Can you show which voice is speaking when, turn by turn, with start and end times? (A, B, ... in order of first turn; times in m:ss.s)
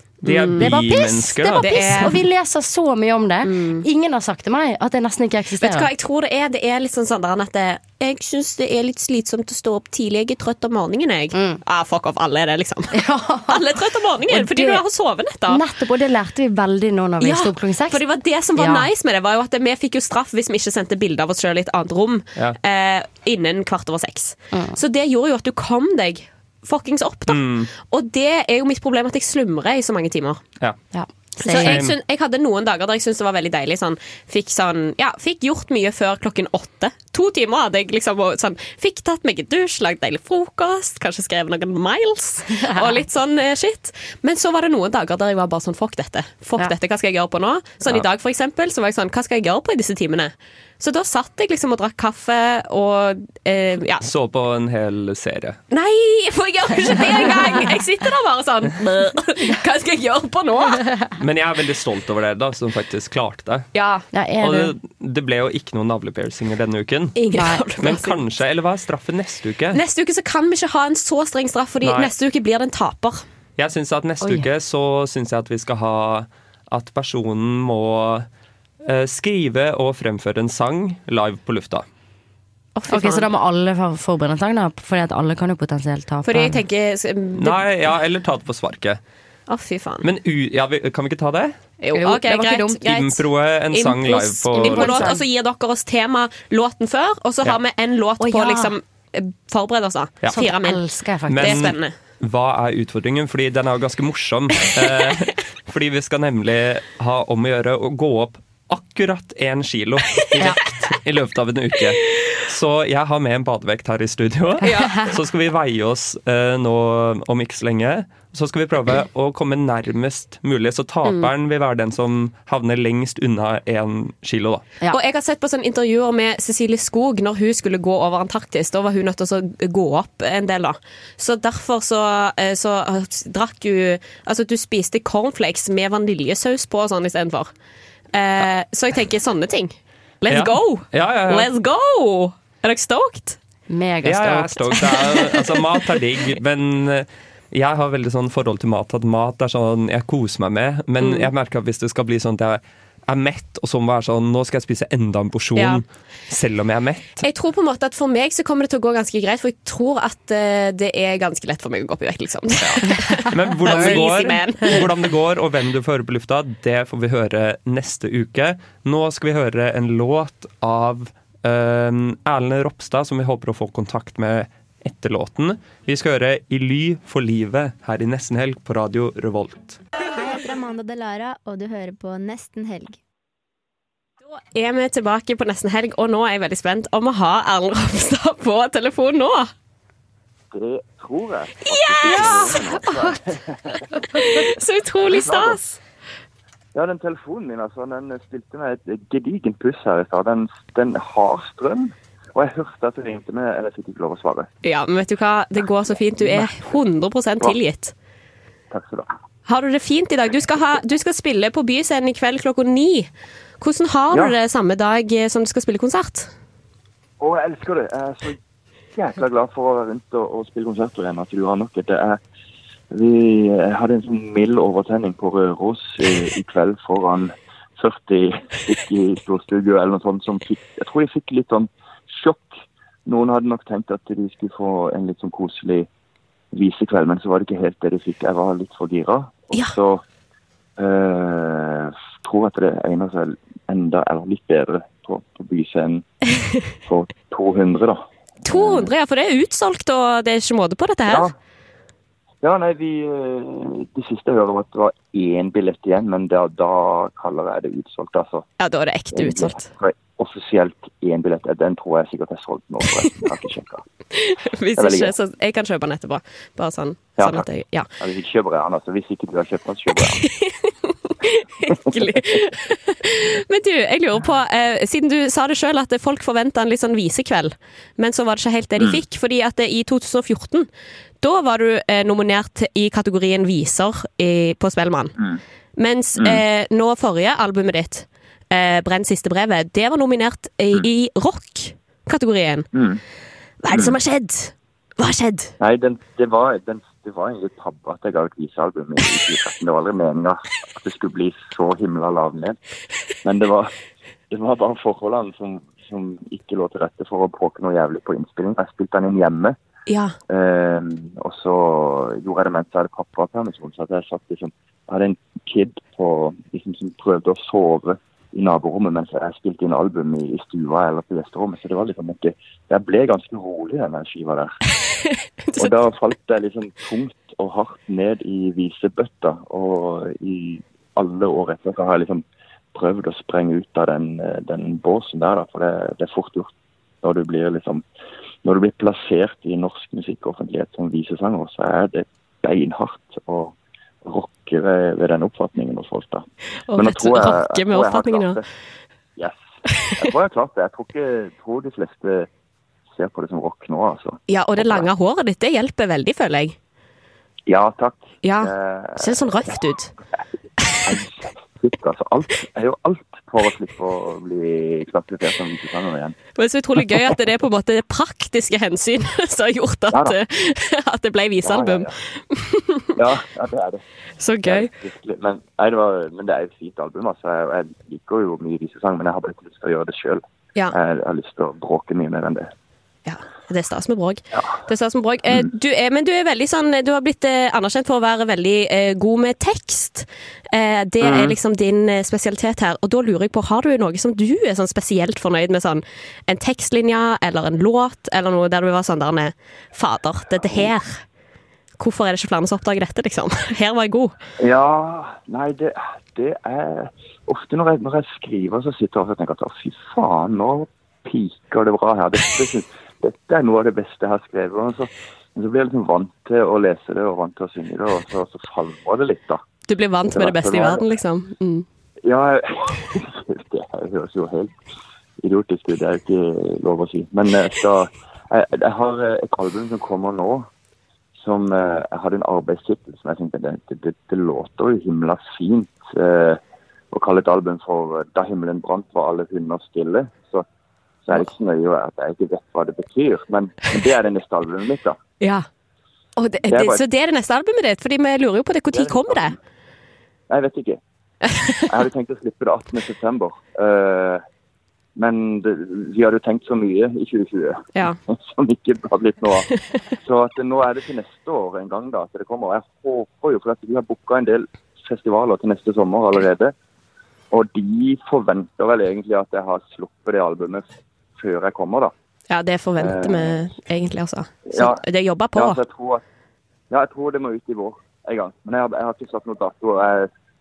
0:00.2-0:02.0 A
0:00.2-0:00.8 B
0:00.5-0:05.9 C
0:01.4-0:02.2 B
0:03.4-0:03.8 B
0:05.6-0:15.6 B
0:11.3-0:11.6 C
0:12.9-0:13.7 C
0:14.3-0:14.8 C
0:15.5-0:18.0 C
0:17.2-0:30.4 B
0:18.5-0:18.9 C
0:24.5-0:24.8 C
0:27.3-0:27.7 A
0:30.9-0:31.8 C
0:31.4-0:54.0 B
0:31.6-0:31.9 A
0:42.7-0:43.0 C
0:54.0-0:55.6 A
0:55.7-1:00.8 B
1:01.2-1:03.7 A
1:03.7-1:04.1 B
1:04.1-1:04.7 C
1:04.4-1:07.2 A
1:07.2-1:08.2 B
1:07.3-1:07.6 C
1:07.8-1:09.8 A
1:09.7-1:13.2 B
1:11.8-1:12.1 A
1:13.6-1:18.3 A
1:14.2-1:14.5 C
1:18.8-1:21.8 A
1:22.7-1:23.2 B
1:22.9-1:26.6 C
1:26.2-1:27.9 B
1:27.3-1:29.0 A
1:29.5-1:30.0 B
1:30.0-1:31.6 A
1:31.8-1:41.9 B
1:31.9-1:32.8 C
1:32.8-1:35.1 A
1:34.5-1:35.2 C
1:38.2-1:38.7 C
1:40.3-1:41.7 C
1:41.3-2:04.6 A
1:54.6-1:55.0 C
1:54.6-1:55.0 B
2:01.0-2:01.3 B
2:04.9-2:17.5 B
2:18.1-2:23.4 B
2:20.3-2:21.5 A
2:23.7-2:24.9 C
2:24.0-2:37.2 A
2:31.0-2:31.3 B
2:35.6-2:35.8 B
2:37.2-2:44.9 B
2:42.6-2:59.8 A
2:43.7-2:44.0 C
3:00.2-3:03.0 D
3:04.2-3:09.5 B
3:10.5-3:13.8 E
3:11.7-3:13.2 B
3:12.1-3:12.4 C
3:14.1-3:15.8 B
3:15.0-3:15.6 E
3:16.7-3:24.5 E
3:24.6-3:27.9 B
3:28.7-3:29.1 E
3:29.4-3:33.1 B
3:33.6-3:36.3 B
3:37.2-3:38.4 E
3:38.9-3:42.2 E
3:42.9-3:52.5 E
3:53.0-3:55.9 E
3:56.5-4:00.0 E
4:00.8-4:06.0 E
4:06.8-4:08.9 E
4:08.4-4:11.3 B
4:11.1-4:11.3 E
4:12.4-4:18.4 E
4:18.6-4:19.7 B
4:19.1-4:23.8 E
4:24.1-4:27.9 B
4:24.8-4:25.1 E
4:27.2-4:27.4 E
4:28.0-4:30.2 E
4:30.0-4:40.7 B
4:41.2-4:45.1 B
4:45.8-4:52.7 B
4:52.7-4:53.0 E
4:53.6-4:55.5 B
4:55.6-5:02.6 E
5:03.2-5:03.7 E
5:04.3-5:09.6 E
5:09.9-5:10.1 B
5:10.3-5:24.5 E
5:25.4-5:25.8 B
5:25.6-5:36.5 E
5:37.0-5:37.8 E
5:38.4-5:46.2 E
5:46.7-5:48.4 B
5:46.8-5:48.4 E
5:50.0-5:52.3 E
5:52.9-5:54.9 E
5:54.3-5:56.6 B
5:57.5-5:59.6 E
5:58.2-5:59.9 B
6:00.7-6:06.2 E
6:06.4-6:12.9 B
6:09.9-6:10.2 E
6:11.4-6:11.9 E
6:13.0-6:13.8 E
6:14.2-6:14.7 B
6:14.4-6:22.5 E
6:23.0-6:41.0 B
6:31.0-6:31.3 E
6:41.8-6:44.1 B
6:44.4-6:59.4 E
6:59.7-7:01.6 B
7:00.1-7:00.9 E
7:02.0-7:04.6 E
7:05.2-7:10.5 E
7:11.2-7:16.4 E
7:16.9-7:20.4 E
7:21.0-7:25.0 E
7:25.2-7:25.5 B
7:26.2-7:29.4 B
7:26.5-7:26.8 E
7:28.7-7:29.3 E
7:30.3-7:30.8 E
7:31.2-7:31.6 B
7:31.7-7:34.2 E
7:35.0-7:39.5 E
7:40.0-7:46.5 E
7:47.3-7:51.9 E
7:52.3-7:55.6 B
7:52.8-7:53.4 E
7:54.5-7:54.8 E
7:55.3-7:56.0 E
7:56.7-8:00.1 E